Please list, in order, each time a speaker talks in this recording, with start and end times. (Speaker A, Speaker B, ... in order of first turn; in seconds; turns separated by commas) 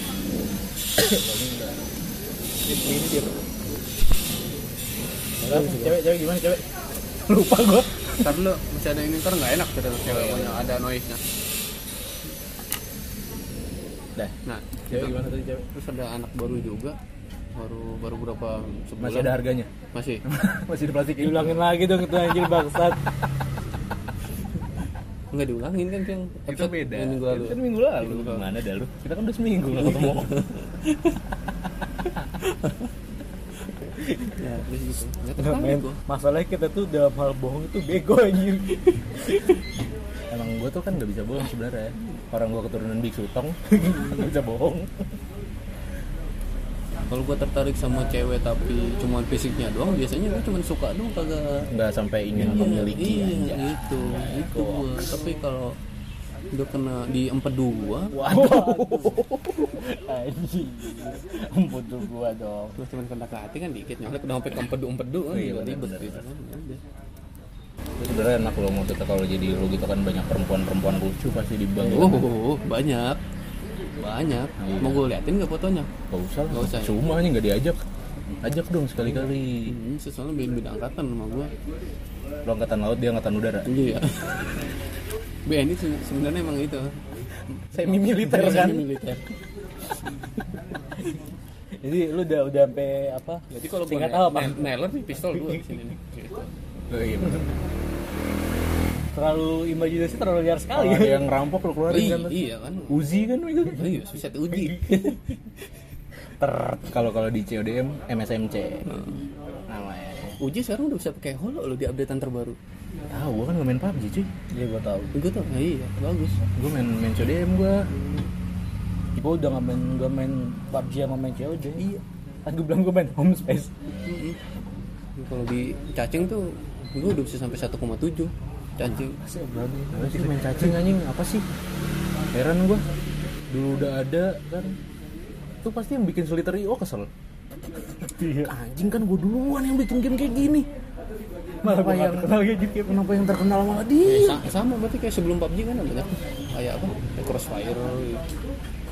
Speaker A: 1.0-1.8, Speaker A: 2.7-3.3, Speaker B: 5.4-6.0, Speaker A: 5.5-6.7, Speaker C: 5.5-5.9, Speaker A: 7.3-8.3, Speaker B: 8.2-11.2, Speaker A: 10.0-10.7, Speaker B: 14.4-17.0, Speaker A: 14.9-15.7, Speaker B: 17.6-19.4, Speaker A: 19.0-19.7, Speaker B: 19.9-20.2, Speaker A: 20.3-21.6, Speaker C: 21.2-23.0, Speaker B: 25.3-28.5, Speaker A: 26.5-30.5, Speaker B: 29.9-30.5, Speaker B: 32.5-32.9, Speaker B: 33.7-36.0, Speaker C: 34.1-34.4, Speaker C: 35.4-39.5, Speaker A: 40.3-44.9, Speaker B: 47.1-51.7, Speaker A: 51.7-53.8, Speaker B: 52.4-55.8, Speaker C: 54.1-55.2, Speaker B: 56.5-58.2, Speaker C: 58.1-62.8, Speaker A: 58.1-59.8, Speaker B: 62.8-66.8, Speaker A: 65.3-66.2, Speaker A: 68.0-72.3, Speaker B: 71.8-73.2, Speaker B: 74.0-75.9, Speaker A: 74.6-75.0, Speaker A: 76.1-77.8, Speaker B: 76.5-77.0, Speaker A: 78.4-79.8, Speaker B: 79.0-81.5, Speaker A: 82.4-83.7, Speaker B: 83.7-84.6, Speaker B: 85.5-89.3, Speaker A: 87.7-88.9, Speaker C: 91.8-94.6, Speaker B: 93.5-96.5, Speaker A: 96.9-97.5, Speaker C: 99.1-101.3, Speaker A: 100.7-102.4, Speaker B: 101.9-103.0, Speaker A: 102.9-103.9, Speaker B: 103.6-105.3, Speaker C: 106.4-106.9, Speaker A: 106.9-109.0, Speaker B: 108.9-109.2, Speaker A: 109.7-110.4, Speaker B: 110.4-112.6, Speaker A: 113.1-114.3, Speaker C: 114.5-115.1, Speaker B: 115.1-116.4, Speaker A: 116.5-117.9, Speaker C: 119.2-123.7, Speaker B: 124.0-124.4, Speaker B: 125.2-129.2, Speaker C: 129.2-130.7, Speaker A: 129.9-131.4, Speaker A: 132.3-132.8, Speaker A: 133.5-134.8, Speaker A: 135.6-137.1, Speaker C: 138.0-138.5, Speaker A: 138.4-140.7, Speaker C: 141.6-143.0, Speaker A: 141.6-144.5, Speaker B: 144.0-148.2